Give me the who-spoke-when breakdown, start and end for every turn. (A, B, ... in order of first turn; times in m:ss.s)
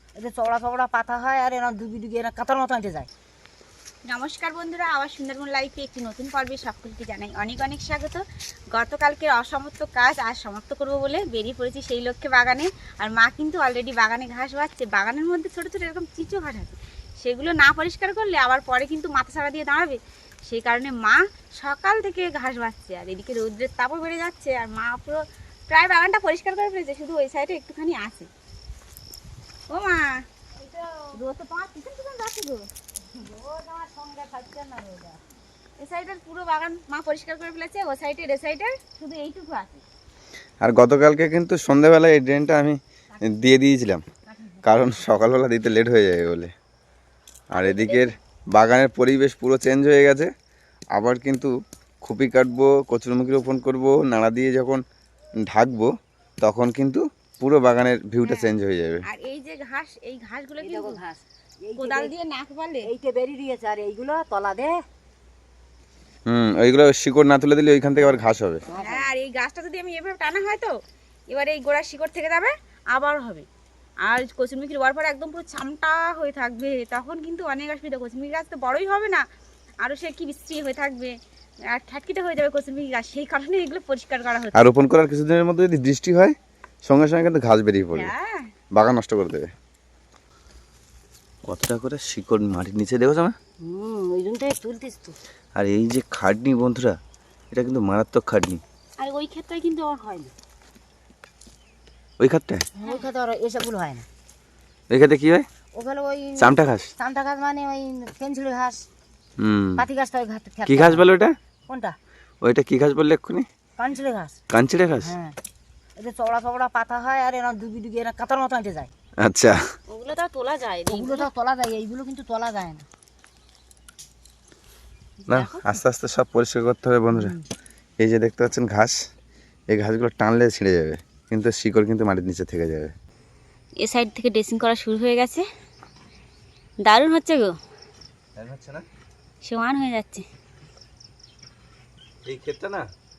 0:00.2-0:03.1 A
0:04.0-0:08.2 B
0:08.7-0:28.3 B
0:29.7-0:30.2 B
0:30.6-0:31.1 A
0:31.1-0:32.7 B
0:33.1-0:35.2 A
0:35.8-0:39.8 B
0:40.6-0:44.0 C
0:44.6-0:46.5 C
0:47.5-0:48.1 B
0:47.5-0:50.3 C
0:50.9-0:51.5 C
0:52.0-0:54.8 C
0:55.5-0:55.9 C
0:56.4-0:59.0 C
0:58.2-0:58.5 B
0:59.1-1:01.0 B
1:00.6-1:02.1 A
1:01.8-1:02.9 B
1:02.8-1:04.8 A
1:06.3-1:08.6 C
1:08.7-1:09.1 A
1:08.7-1:10.8 B
1:11.3-1:13.5 B
1:14.0-1:19.2 B
1:19.8-1:21.2 B
1:21.7-1:24.6 B
1:24.5-1:28.1 C
1:27.9-1:28.5 B
1:28.7-1:29.5 C
1:31.4-1:33.4 C
1:33.6-1:35.2 A
1:35.6-1:37.0 C
1:37.5-1:38.6 C
1:39.0-1:40.3 B
1:42.2-1:42.6 C
1:42.8-1:44.0 A
1:44.9-1:45.5 C
1:45.7-1:48.8 A
1:46.4-1:46.9 C
1:49.4-1:49.8 C
1:49.8-1:51.1 A
1:50.6-1:51.4 C
1:51.7-1:52.0 A
1:52.4-1:53.5 C
1:53.8-1:54.4 A
1:54.5-1:55.1 C
1:55.0-1:55.4 A
1:56.0-1:58.9 A
1:59.2-1:59.6 C
1:59.9-2:01.3 B
2:00.9-2:02.8 A
2:05.2-2:05.7 B
2:05.3-2:07.4 C
2:08.0-2:08.9 C
2:09.7-2:12.9 C
2:13.8-2:15.4 B
2:16.8-2:17.6 B
2:18.4-2:18.8 C
2:19.4-2:20.2 B
2:22.2-2:22.8 C